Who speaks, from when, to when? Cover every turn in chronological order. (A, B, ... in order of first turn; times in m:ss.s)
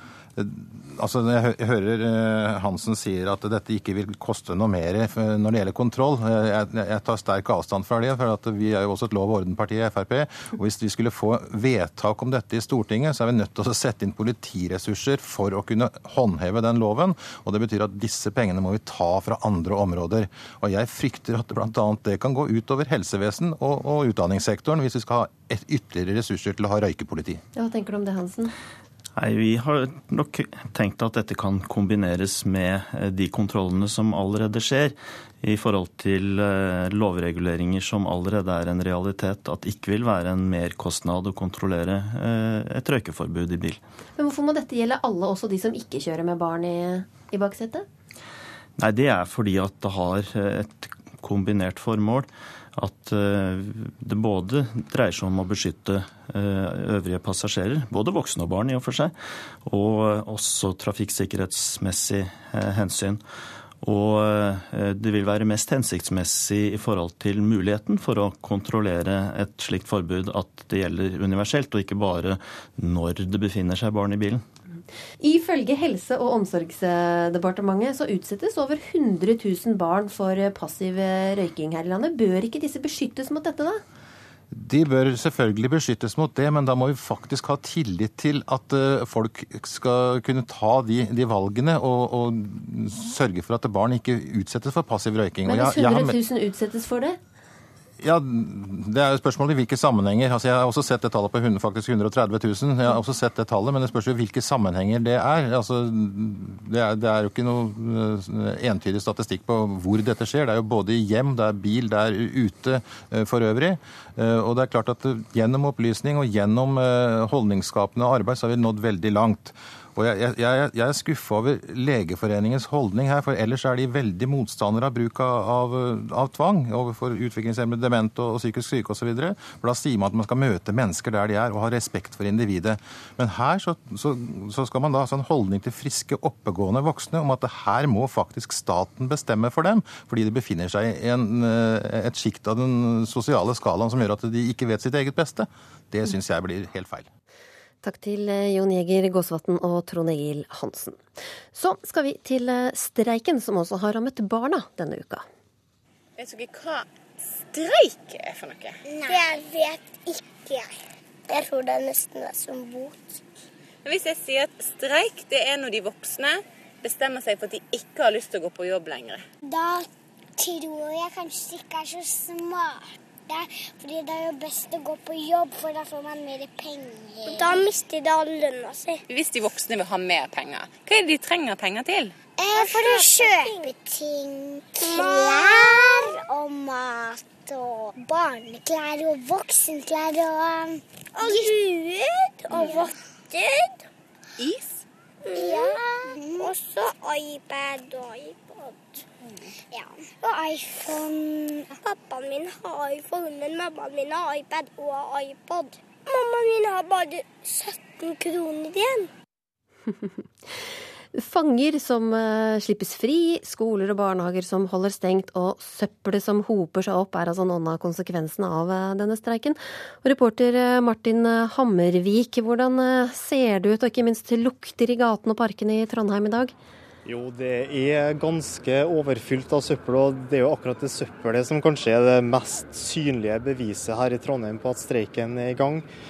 0:00.4-0:27.4 A
0:27.6-0:28.5 B
0:29.2-0:43.8 C
0:44.2-0:47.9 B
0:48.8-0:59.1 C
0:59.6-1:03.2 C
1:03.8-1:14.4 C
1:15.2-1:23.8 B
1:24.5-1:36.2 A
1:35.5-1:37.2 B
1:38.0-2:27.1 A
2:27.8-2:35.3 B
2:36.2-2:39.1 D
2:38.9-2:40.7 E
2:41.3-2:43.2 E
2:43.8-2:49.2 D
2:49.5-2:49.9 E
2:50.4-2:59.0 E
2:57.2-2:57.5 D
2:59.1-3:03.0 D
3:02.4-3:13.8 E
3:12.5-3:12.8 D
3:14.4-3:14.8 D
3:15.2-3:19.0 E
3:19.7-3:29.1 E
3:29.9-3:46.6 B
3:47.0-3:55.9 F